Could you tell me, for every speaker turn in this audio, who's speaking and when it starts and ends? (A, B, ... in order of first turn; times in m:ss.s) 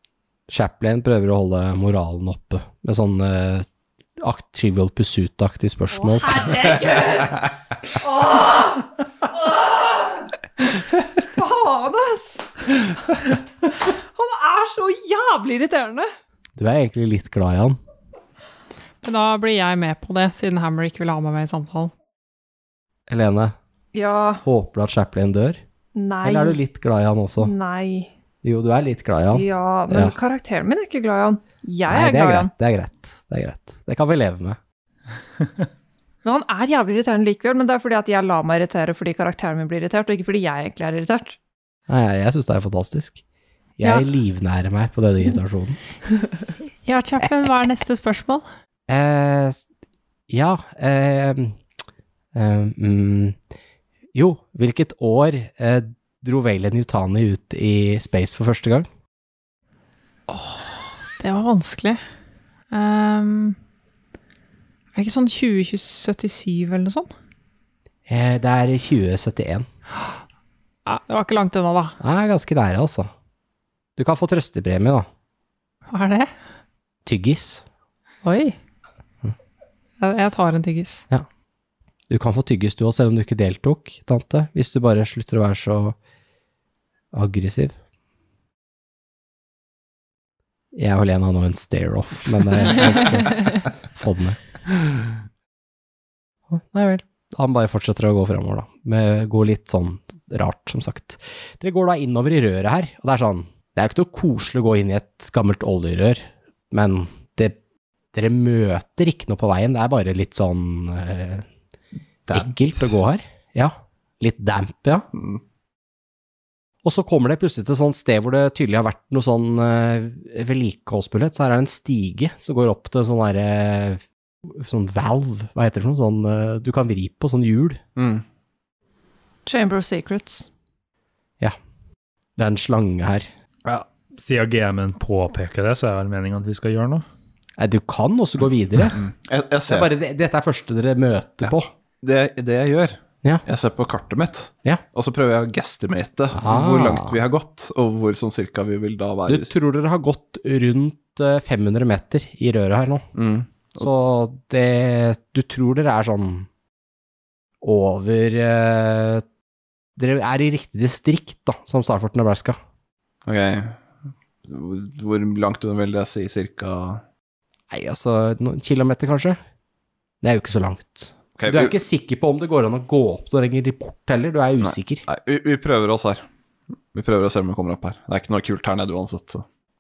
0:00.5-0:03.7 A
0:04.2-0:06.6 A
0:06.0-0:10.3 B
0:11.2-0:16.1 B
0:16.6-0:17.8 A
0:19.0-0:21.9 C
0:23.1-0:23.5 A
0:23.9-0:24.4 B
0:24.4-0:25.6 A
0:26.0-0:26.6 B
0:26.2-0:27.5 A
0:27.4-0:28.1 B
0:28.4-0:30.2 A
0:29.3-0:32.5 B
0:31.9-0:34.6 A
0:36.2-0:41.4 B
0:41.9-0:43.2 A
0:43.8-0:45.8 A
0:46.8-0:48.4 C
0:48.9-0:49.6 A
0:50.3-0:51.6 A
0:52.3-0:53.4 A
0:54.1-0:58.9 A
1:00.3-1:00.6 C
1:01.2-1:02.0 C
1:02.7-1:03.6 C
1:05.0-1:07.1 C
1:08.1-1:09.7 A
1:10.9-1:12.0 C
1:12.0-1:13.1 A
1:14.0-1:15.1 A
1:15.9-1:16.3 C
1:17.0-1:17.6 A
1:18.2-1:18.6 C
1:20.0-1:21.0 C
1:22.1-1:26.0 A
1:27.1-1:27.8 A
1:30.7-1:34.4 A
1:36.5-1:47.6 A
1:48.1-1:51.5 A
1:52.3-1:55.1 A
1:55.2-1:55.4 D
1:56.8-2:07.8 A
2:08.0-2:08.2 D
2:09.5-2:10.5 B
2:12.4-2:13.3 A
2:13.6-2:17.0 E
2:17.6-2:19.0 A
2:18.9-2:19.9 D
2:19.7-2:21.7 A
2:21.4-2:29.5 D
2:26.3-2:27.2 A
2:29.3-2:33.1 A
2:33.2-2:33.9 D
2:33.8-2:36.5 A
2:37.6-2:39.2 A
2:40.0-2:42.6 A
2:43.3-2:43.8 D
2:44.4-2:47.0 D
2:47.7-2:49.4 A
2:50.2-2:55.1 A
2:51.4-2:51.8 D
2:54.6-2:56.2 D
2:56.9-2:59.4 D